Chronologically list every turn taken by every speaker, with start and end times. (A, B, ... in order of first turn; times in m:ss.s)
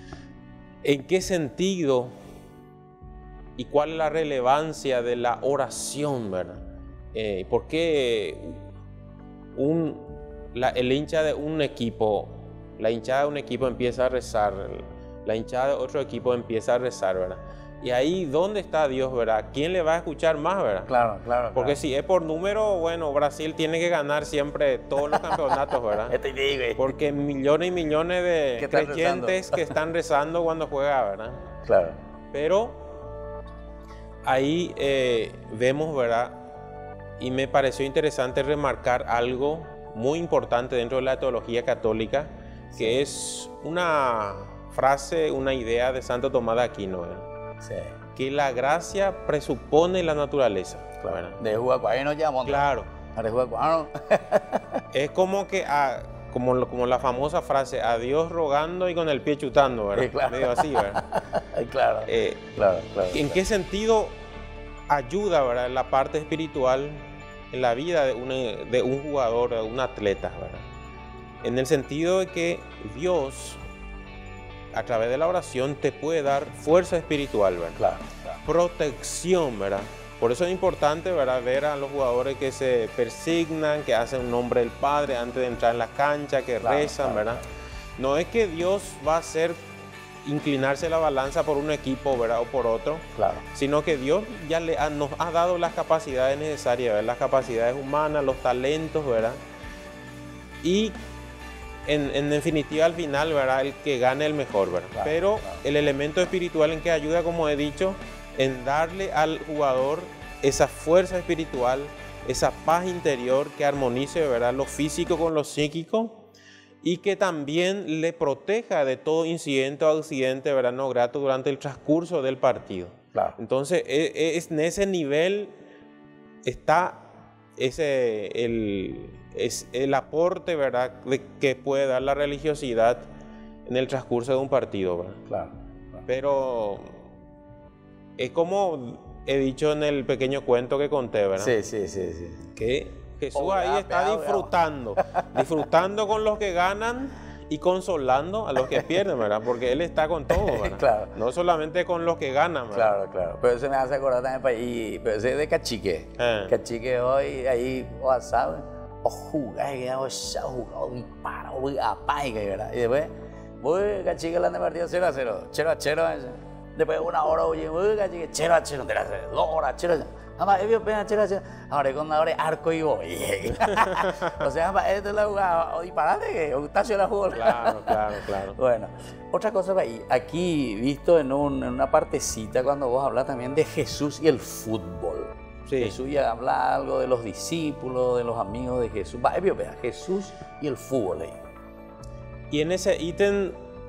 0:00.8-0:02.1 A
0:03.6-0:06.6 A
0:07.1-0:08.6 A
0:09.5-0:20.9 A
0:20.9-0:21.8 B
0:21.5-0:26.2 A
0:26.1-0:26.9 B
0:26.8-0:31.4 A
0:28.6-0:29.7 B
0:31.6-0:32.0 B
0:32.3-0:32.8 A
0:34.2-0:36.3 A
0:37.2-0:47.3 A
0:42.7-0:43.0 B
0:47.6-0:47.9 B
0:48.2-0:51.4 A
0:51.0-0:54.8 B
0:52.4-0:52.9 A
0:54.9-1:01.0 A
0:59.9-1:03.4 B
1:02.0-1:02.5 A
1:03.1-1:04.2 A
1:04.9-1:10.6 A
1:11.4-1:13.6 A
1:14.7-1:17.8 A
1:17.8-1:18.4 B
1:18.4-1:27.4 A
1:26.6-1:27.4 B
1:28.0-1:29.6 A
1:30.2-1:39.4 A
1:33.2-1:33.4 B
1:40.6-1:41.0 A
1:41.9-1:56.2 A
1:44.9-1:45.6 B
1:56.8-2:05.5 A
2:06.4-2:13.0 A
2:13.6-2:15.2 A
2:15.3-2:16.0 B
2:16.1-2:16.9 A
2:18.2-2:21.5 A
2:21.4-2:22.5 B
2:22.6-2:33.0 A
2:23.3-2:25.0 B
2:30.3-2:31.1 B
2:32.7-2:58.0 B
2:36.2-2:36.6 A
2:57.3-2:58.6 A
2:58.6-3:11.4 B
3:05.7-3:06.0 A
3:12.5-3:13.6 A